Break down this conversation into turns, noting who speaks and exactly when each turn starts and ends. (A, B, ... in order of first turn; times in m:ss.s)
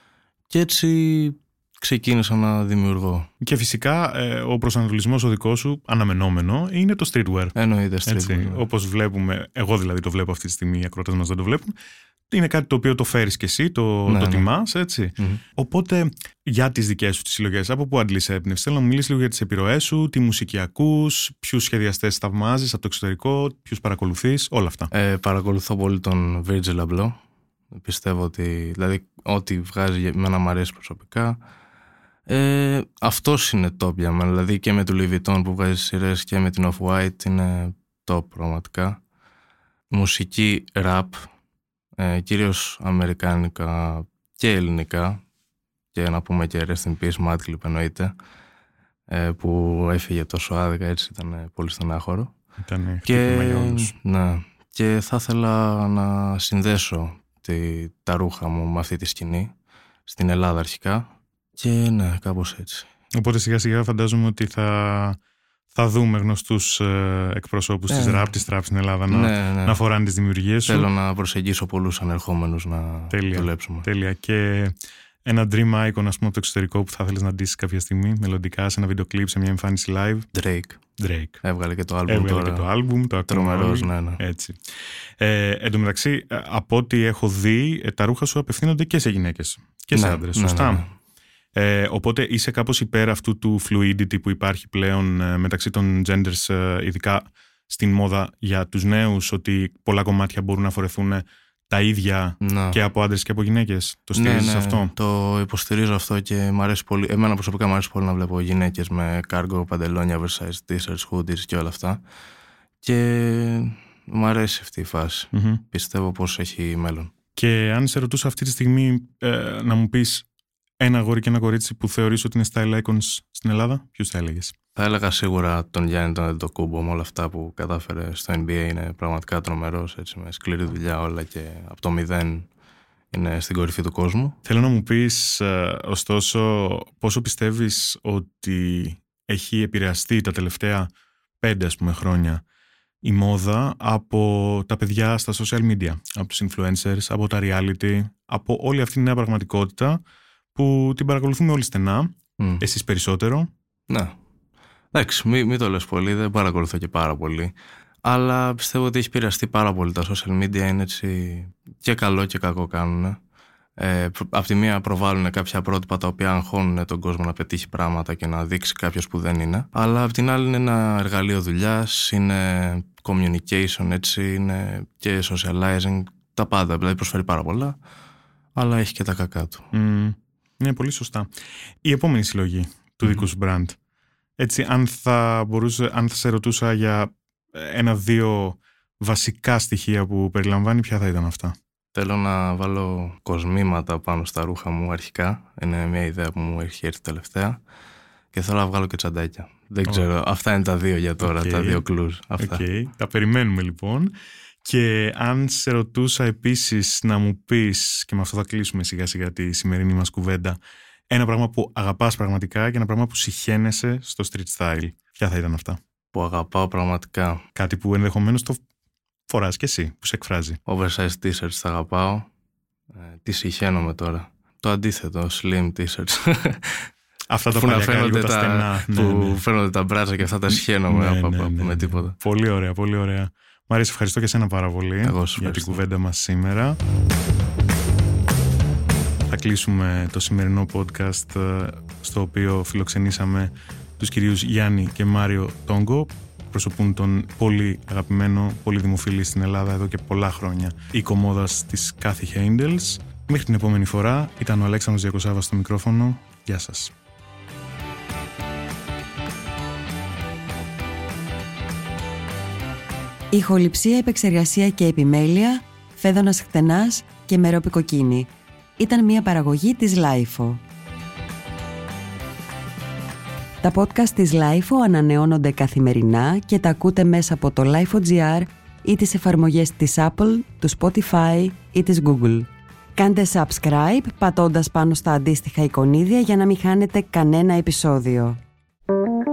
0:00.5-0:03.3 A
0:03.4-0:07.6 B
0:07.6-0:08.6 A
0:08.1-0:11.7 B
0:12.3-0:24.9 B
0:14.1-0:14.5 A
0:24.9-0:27.1 A
0:27.7-0:31.4 A
0:32.3-0:39.0 A
0:39.9-0:41.3 A
0:42.0-0:45.2 A
0:45.9-0:48.1 A
0:49.1-0:52.3 A
0:52.6-0:53.9 B
0:53.0-0:59.5 A
1:00.1-1:02.9 A
1:03.2-1:05.2 B
1:05.7-1:10.9 B
1:07.9-1:08.3 A
1:09.1-1:09.8 A
1:10.7-1:13.9 A
1:13.1-1:14.7 B
1:15.2-1:20.3 B
1:20.3-1:20.8 A
1:21.0-1:21.4 B
1:21.4-1:22.7 A
1:22.1-1:24.6 B
1:23.3-1:24.2 A
1:25.2-1:30.8 B
1:29.9-1:30.9 A
1:31.6-1:44.9 B
1:42.4-1:42.8 A
1:44.1-1:52.0 A
1:52.8-1:57.1 A
1:55.3-1:55.6 B
1:57.4-2:00.3 B
2:00.8-2:04.6 B
2:04.8-2:12.5 A
2:13.1-2:14.4 A
2:14.4-2:20.9 B
2:21.4-2:22.4 B
2:23.0-2:30.0 B
2:30.6-2:33.5 B
2:34.9-2:37.5 A
2:38.0-2:43.2 A
2:43.8-2:57.8 A
2:58.6-2:59.6 A
2:59.7-3:01.3 B
3:01.8-3:03.8 B
3:04.4-3:11.6 B
3:11.9-3:17.6 A
3:18.3-3:22.6 A
3:21.2-3:21.8 B
3:22.4-3:30.6 B
3:31.1-3:35.8 B
3:36.1-3:37.4 A
3:37.6-3:38.6 B
3:39.3-3:40.6 B
3:40.7-3:42.3 A
3:43.0-3:46.9 A
3:47.3-3:49.4 B
3:47.5-3:52.1 A
3:50.5-3:56.8 B
3:55.0-3:55.8 A
3:59.3-4:16.9 B
4:23.3-4:30.6 C
4:33.6-4:48.4 C